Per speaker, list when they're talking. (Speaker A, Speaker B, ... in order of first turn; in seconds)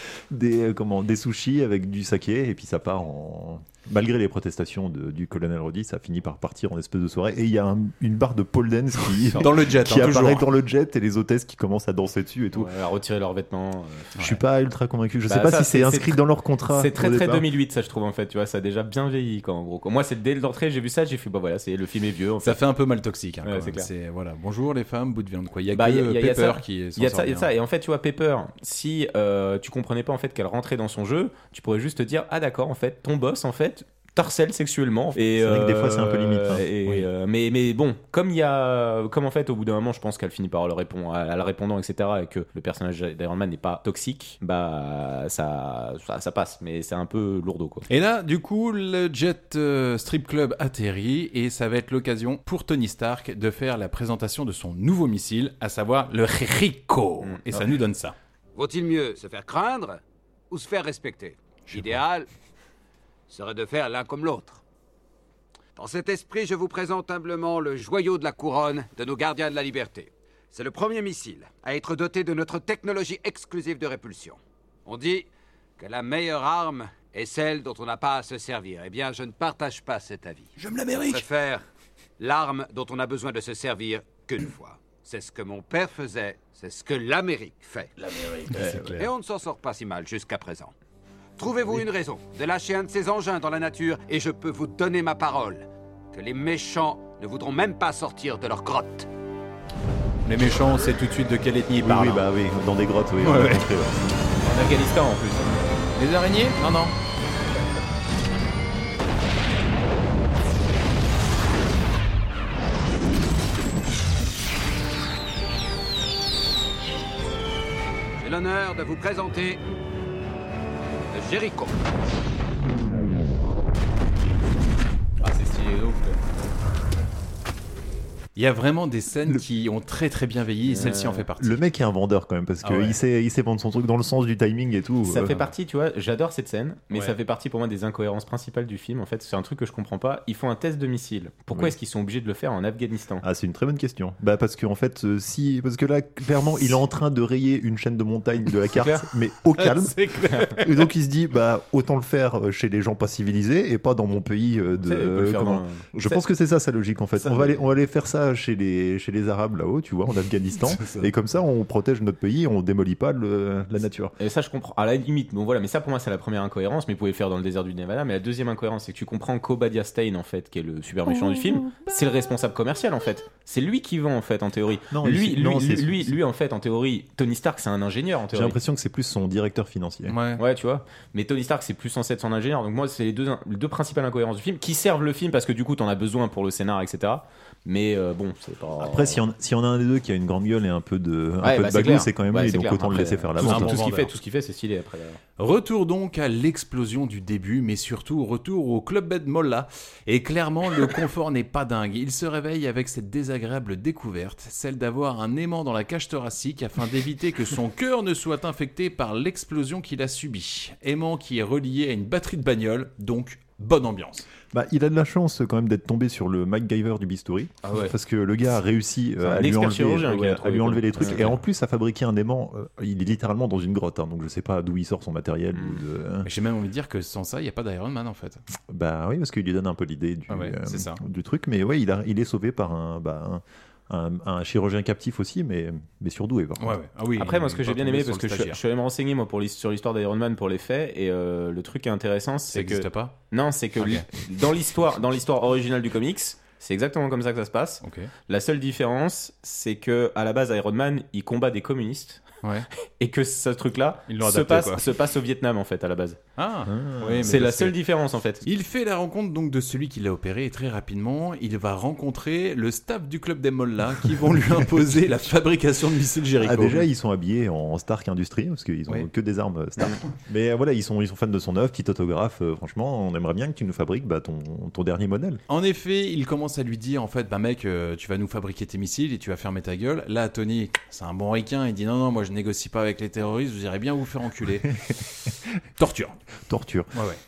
Speaker A: 0.3-12.7, 14.2-17.5, 35.4-36.6, 101.8-104.0, 131.4-135.4, 143.2-164.1, 174.9-176.2, 178.3-180.2, 188.8-193.8, 214.5-226.3, 228.7-236.8, 256.7-257.4, 266.4-275.4, 286.5-286.9
Speaker B: 9.4-10.5, 22.4-27.5, 47.9-58.1, 80.6-81.2, 88.5-89.1, 100.2-102.2, 103.2-103.7, 106.0-106.9, 128.3-131.6, 149.6-150.6, 160.7-161.1, 180.1-180.4, 193.4-194.1, 195.4-214.3, 221.0-221.4, 226.2-228.4, 230.3-231.0, 236.6-238.6, 242.5-243.1, 243.8-244.1, 247.8-248.1, 254.1-254.8, 256.4-257.8, 258.4-266.9, 275.5-286.1, 286.9-287.2
Speaker C: 12.5-14.1, 15.3-22.6, 23.4-23.9, 25.7-47.9, 57.2-57.6, 104.4-105.6, 125.2-126.2, 130.7-131.2, 135.0-143.2, 148.7-149.0, 154.8-156.2, 157.2-157.6, 164.2-178.6, 180.4-189.2, 191.4-195.2, 219.2-221.3, 225.6-225.8, 237.2-252.2, 253.0-256.2, 257.2-258.4
Speaker D: 58.5-62.3, 63.3-64.6, 65.8-75.3, 75.8-81.7, 82.2-88.3, 88.9-90.7, 91.4-99.1, 118.2-119.6, 121.1-121.8